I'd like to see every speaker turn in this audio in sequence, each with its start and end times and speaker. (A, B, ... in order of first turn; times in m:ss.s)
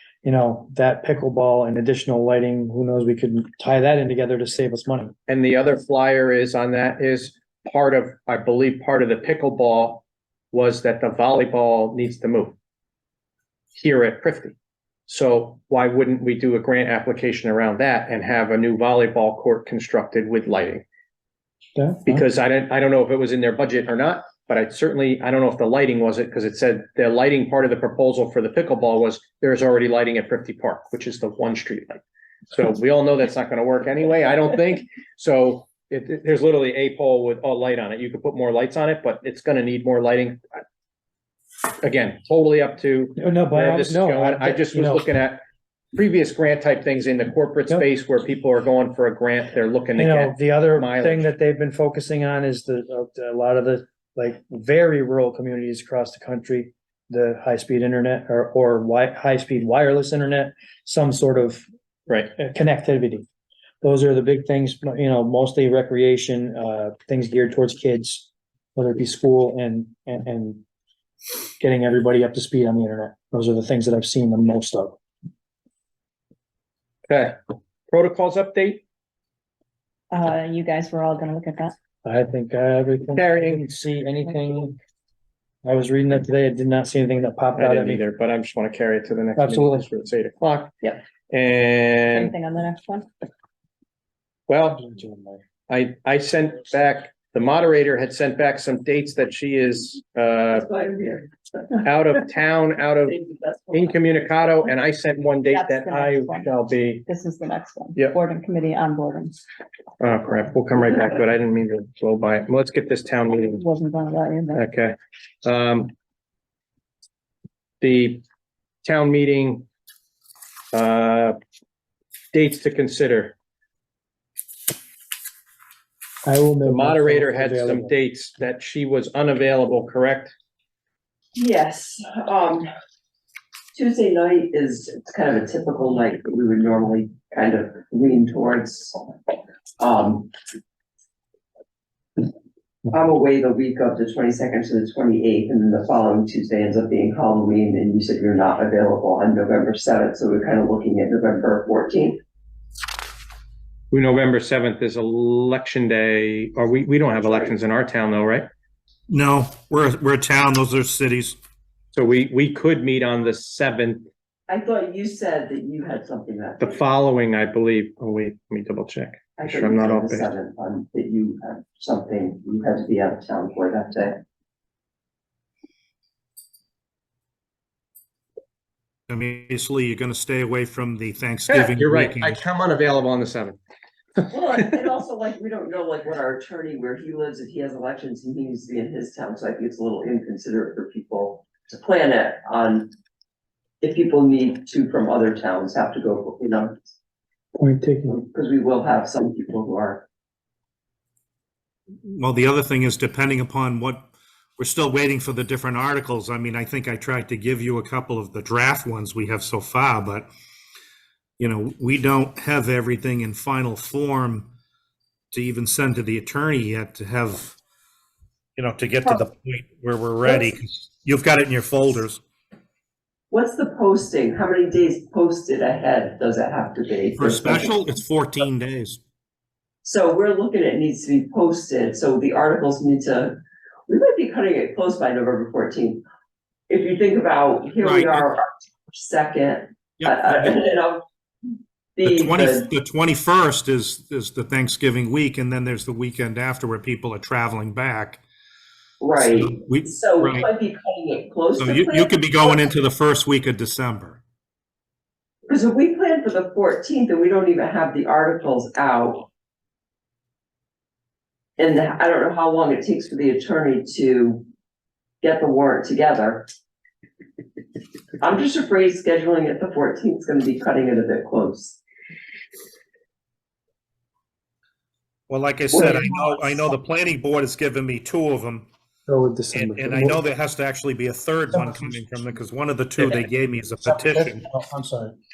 0:00.2-0:05.1 A
0:05.3-0:12.6 B
0:13.8-0:14.6 B
0:15.1-0:20.8 B
0:21.8-0:22.2 A
0:22.0-0:40.6 B
0:41.8-0:45.4 B
0:43.2-0:45.1 A
0:45.9-0:51.3 B
0:50.0-1:01.6 A
1:02.4-1:03.3 A
1:03.8-1:10.6 A
1:11.6-1:15.0 A
1:17.1-1:17.4 B
1:17.9-1:18.8 B
1:20.1-1:21.8 C
1:22.0-1:24.8 A
1:23.2-1:23.8 B
1:25.6-1:28.0 A
1:27.6-1:30.8 B
1:29.4-1:29.9 A
1:31.3-1:32.3 B
1:32.1-1:33.1 C
1:34.5-1:34.9 B
1:34.8-1:35.4 A
1:35.7-1:40.7 B
1:40.5-1:41.8 D
1:41.8-1:43.2 B
1:43.0-1:44.2 D
1:43.7-1:47.1 B
1:45.5-1:46.5 C
1:47.1-1:49.4 C
1:50.0-1:53.6 B
1:53.5-1:54.7 C
1:54.5-1:55.9 B
1:57.8-1:58.2 B
1:58.8-1:59.7 B
2:00.7-2:01.4 B
2:02.3-2:03.4 B
2:06.2-2:07.9 A
2:06.6-2:10.4 B
2:11.4-2:12.7 D
2:13.7-2:19.0 D
2:19.8-2:20.3 D
2:22.9-2:32.2 D
2:33.9-2:38.5 B
2:37.2-2:37.6 D
2:39.1-2:41.4 E
2:41.9-2:44.1 B
2:44.5-2:46.8 D
2:46.6-2:50.3 B
2:49.4-2:54.2 D
2:59.1-3:02.4 E
3:01.5-3:03.6 B
3:04.3-3:12.9 D
3:13.8-3:16.8 D
3:17.6-3:18.2 A
3:18.1-3:20.0 D
3:22.0-3:30.3 E
3:31.4-3:34.5 E
3:35.3-3:37.6 E
3:38.6-3:42.2 E
3:43.3-3:47.7 D
3:47.2-3:49.0 E
3:49.8-3:56.0 D
3:56.7-4:01.0 D
3:57.8-3:58.2 E
4:00.0-4:00.5 E
4:02.0-4:02.7 D
4:02.0-4:08.2 E
4:09.0-4:12.6 D
4:09.2-4:10.5 E
4:11.6-4:14.2 E
4:15.5-4:19.3 D
4:21.6-4:24.5 D
4:25.2-4:26.5 D
4:28.2-4:31.8 D
4:35.3-4:38.7 E
4:35.7-4:36.7 D
4:39.1-4:40.2 A
4:39.5-4:44.4 E
4:41.5-4:42.0 A
4:43.8-4:45.1 A